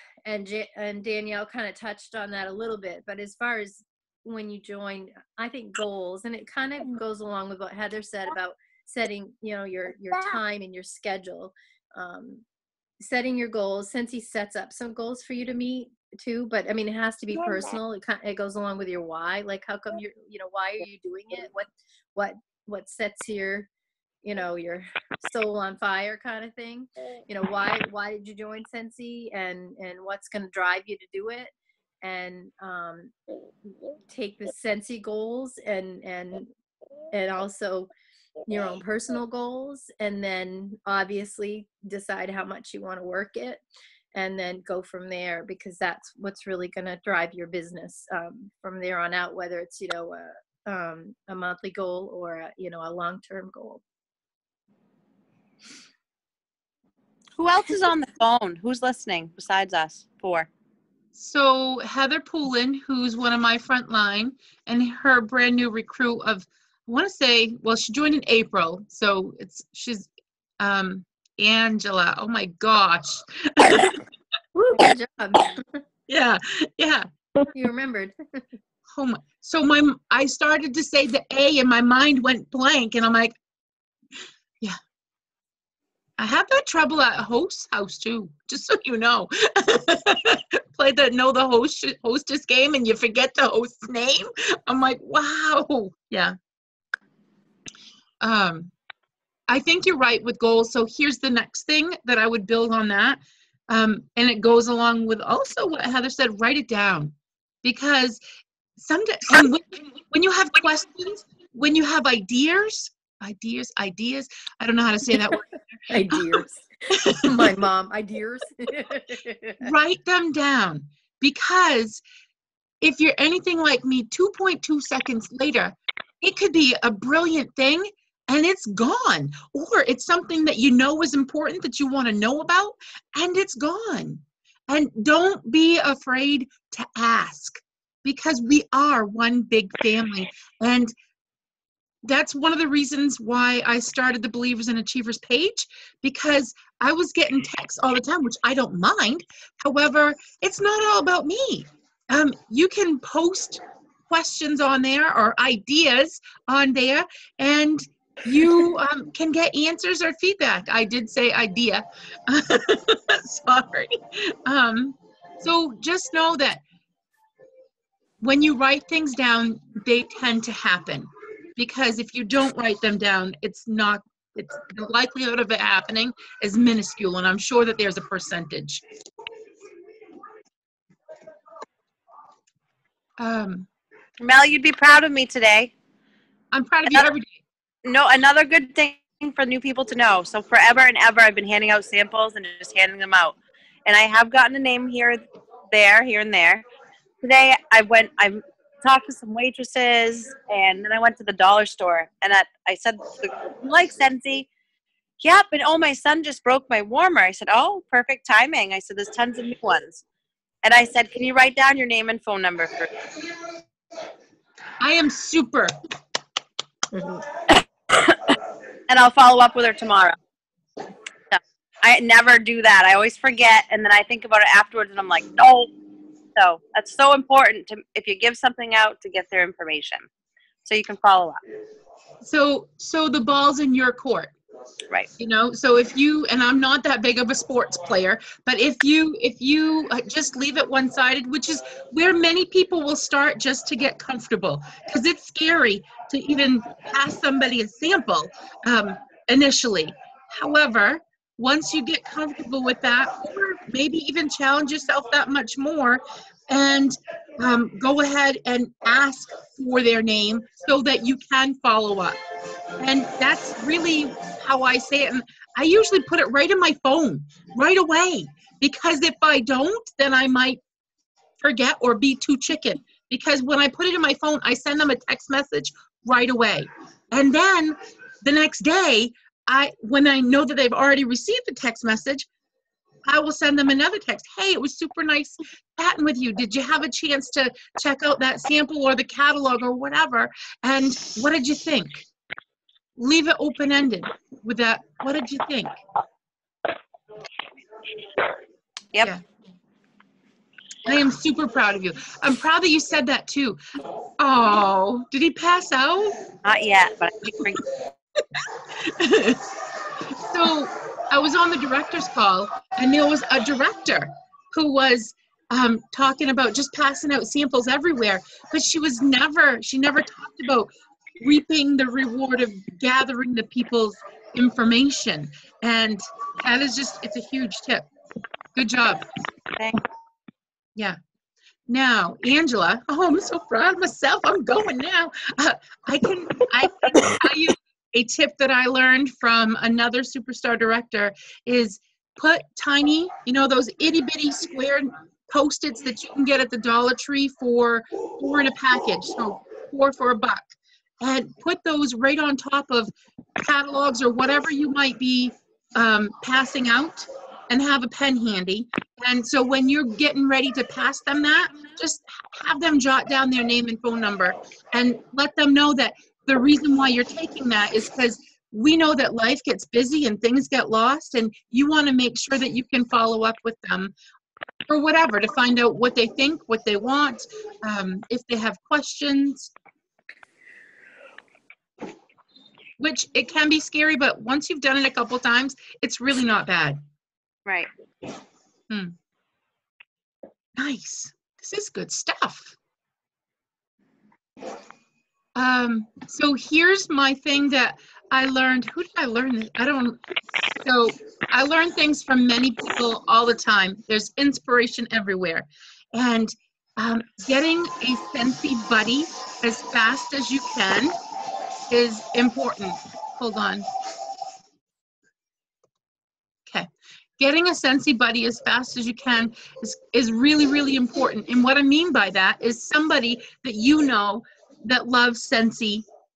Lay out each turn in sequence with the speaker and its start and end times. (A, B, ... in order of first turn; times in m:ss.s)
0:00.2-0:12.4 A
0:13.0-0:23.7 A
0:24.2-0:33.1 A
0:34.1-0:36.5 A
0:37.1-0:37.9 A
0:38.5-0:43.6 A
0:44.1-0:53.8 A
0:57.4-1:00.5 B
1:01.1-1:14.0 C
1:14.5-1:15.8 A
1:16.1-1:17.1 C
1:17.5-1:18.4 A
1:18.9-1:23.3 C
1:26.2-1:36.4 C
1:38.2-1:38.7 C
1:39.5-1:48.2 C
1:48.8-1:56.4 C
1:55.9-1:59.7 A
1:57.0-1:57.4 C
1:59.6-2:02.0 C
2:02.8-2:20.9 C
2:22.0-2:46.6 C
2:48.2-2:58.8 C
3:03.2-3:03.7 C
3:04.2-3:05.7 B
3:06.5-3:07.4 C
3:07.8-3:16.6 B
3:17.2-3:24.5 B
3:25.2-3:30.0 B
3:30.6-3:33.0 B
3:34.8-3:35.7 C
3:36.9-3:37.2 A
3:38.9-3:40.2 B
3:41.3-3:45.8 B
3:46.4-3:50.1 B
3:50.6-3:51.4 B
3:52.2-3:54.3 C
3:55.2-4:22.2 C
4:22.8-4:30.6 C
4:31.4-4:42.3 C
4:43.0-4:52.0 C
4:53.0-4:55.7 C
5:00.8-5:03.6 C
5:04.2-5:06.2 C
5:06.4-5:07.6 B
5:08.3-5:09.5 C
5:10.1-5:27.8 C
5:28.5-5:29.0 C
5:31.7-6:13.9 C
6:14.7-6:19.5 C
6:22.8-6:26.8 C
6:30.6-6:32.6 C
6:35.4-6:40.0 C
6:40.6-6:51.0 C
6:51.7-6:53.7 C
6:56.5-7:05.8 C